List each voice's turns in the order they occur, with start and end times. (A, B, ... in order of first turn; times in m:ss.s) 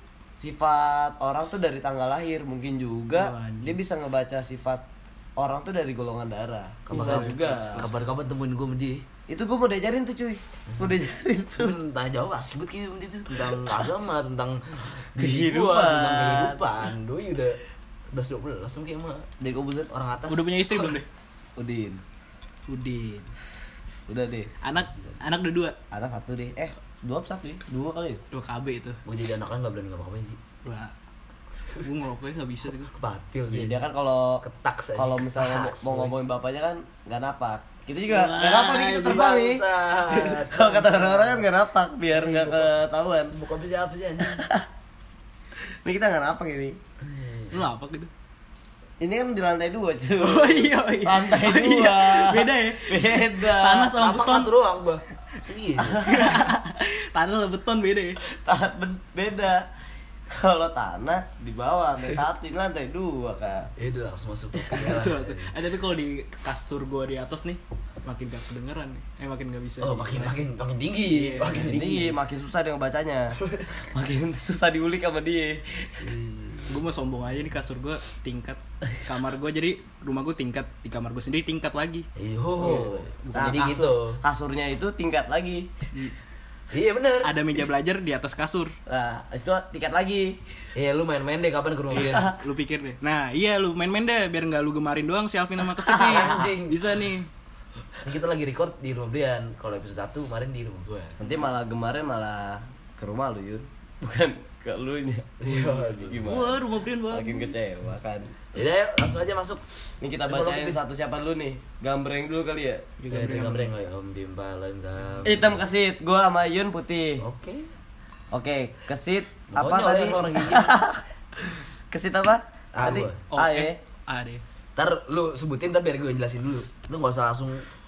0:00.4-0:04.8 A
0:03.2-0:03.7 B
0:05.4-0:07.9 A
0:06.9-0:09.0 C
0:06.9-0:08.0 B
0:09.3-0:11.8 A
0:10.7-0:11.0 C
0:11.6-0:17.6 C
0:13.4-0:13.9 A
0:15.2-0:16.6 A
0:18.1-0:19.3 C
0:19.4-0:19.9 A
0:19.9-0:21.0 C
0:20.3-0:21.1 B
0:21.6-0:22.0 A
0:22.7-0:23.3 B
0:24.1-0:24.5 A
0:24.6-0:25.8 B
0:25.9-0:28.2 A
0:28.3-0:29.0 B
0:29.0-0:30.4 C
0:30.6-0:30.9 B
0:31.7-0:32.9 B
0:32.9-0:33.8 C
0:33.5-0:34.4 A
0:34.4-0:36.2 C
0:35.0-0:43.4 A
0:38.1-0:39.2 B
0:38.4-0:41.5 C
0:42.1-0:42.8 C
0:43.3-0:44.4 C
0:44.2-0:44.7 A
0:45.6-0:46.8 A
0:47.0-0:47.6 C
0:47.5-0:48.1 B
0:49.0-0:54.0 A
0:50.2-0:54.6 B
0:53.9-0:56.3 C
0:56.0-0:58.2 B
0:58.2-0:59.7 A
1:00.3-1:03.7 A
1:03.8-1:05.5 C
1:04.7-1:10.4 B
1:09.8-1:12.2 C
1:11.1-1:11.7 B
1:11.5-1:16.2 A
1:13.4-1:13.7 C
1:16.0-1:16.8 C
1:16.7-1:22.1 B
1:22.2-1:24.2 C
1:22.6-1:25.7 A
1:23.2-1:23.6 B
1:26.7-1:27.4 C
1:27.2-1:28.7 B
1:28.9-1:30.4 A
1:30.8-1:32.3 C
1:31.9-1:37.3 B
1:32.0-1:32.4 A
1:35.9-1:36.9 C
1:36.0-1:36.4 A
1:38.0-1:41.2 C
1:41.2-1:48.4 A
1:45.4-1:46.4 C
1:46.2-1:47.6 B
1:48.5-1:49.6 C
1:50.0-1:52.9 A
1:50.2-1:50.8 C
1:53.0-1:53.7 B
1:53.1-1:55.6 C
1:55.2-1:57.2 A
1:57.2-1:57.7 C
1:58.3-2:03.8 A
1:59.5-2:00.8 C
2:02.7-2:03.2 C
2:03.3-2:04.4 B
2:04.8-2:07.7 C